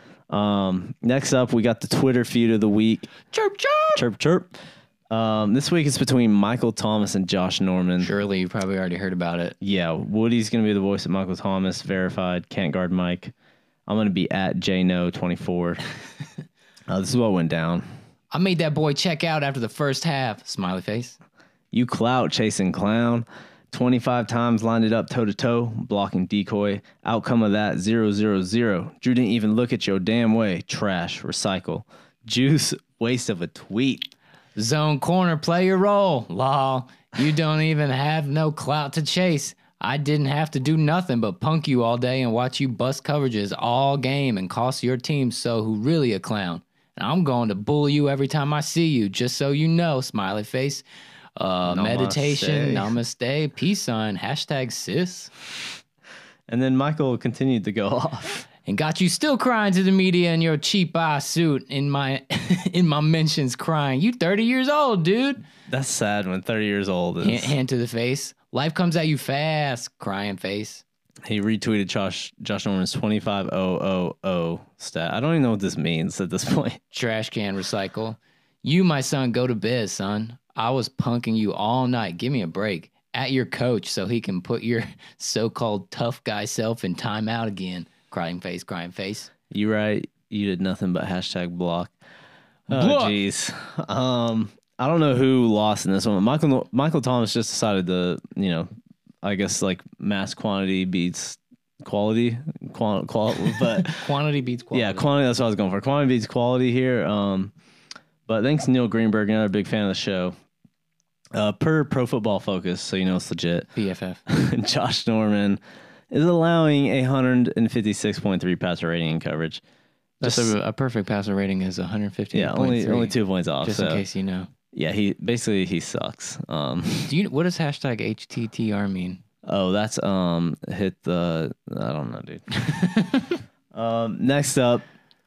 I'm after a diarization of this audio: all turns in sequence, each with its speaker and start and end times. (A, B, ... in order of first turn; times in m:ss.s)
0:00.3-0:03.1 A
0:03.3-0:04.0 B
0:03.9-0:04.6 A
0:05.1-0:08.1 A
0:08.0-0:09.6 B
0:09.6-0:13.3 A
0:13.9-0:15.8 A
0:16.9-0:17.9 A
0:18.3-0:21.2 B
0:21.7-0:34.1 A
0:34.6-0:50.8 B
0:51.4-0:55.3 B
0:51.6-0:52.9 A
0:56.5-0:58.4 A
0:58.6-1:05.4 B
1:05.7-1:07.5 A
1:07.2-1:10.8 B
1:11.2-1:16.8 A
1:16.9-1:29.3 B
1:29.5-1:31.9 A
1:32.7-1:33.2 B
1:32.7-1:38.7 A
1:39.2-1:44.1 A
1:43.8-1:45.1 B
1:44.7-1:47.5 A
1:48.3-1:50.4 A
1:51.3-1:53.7 A
1:53.7-1:54.2 B
1:54.3-1:59.6 A
2:00.2-2:00.5 A
2:00.2-2:04.5 B
2:02.3-2:04.0 A
2:04.7-2:07.1 A
2:07.1-2:09.2 B
2:09.4-2:12.5 A
2:12.6-2:13.3 B
2:13.7-2:14.8 A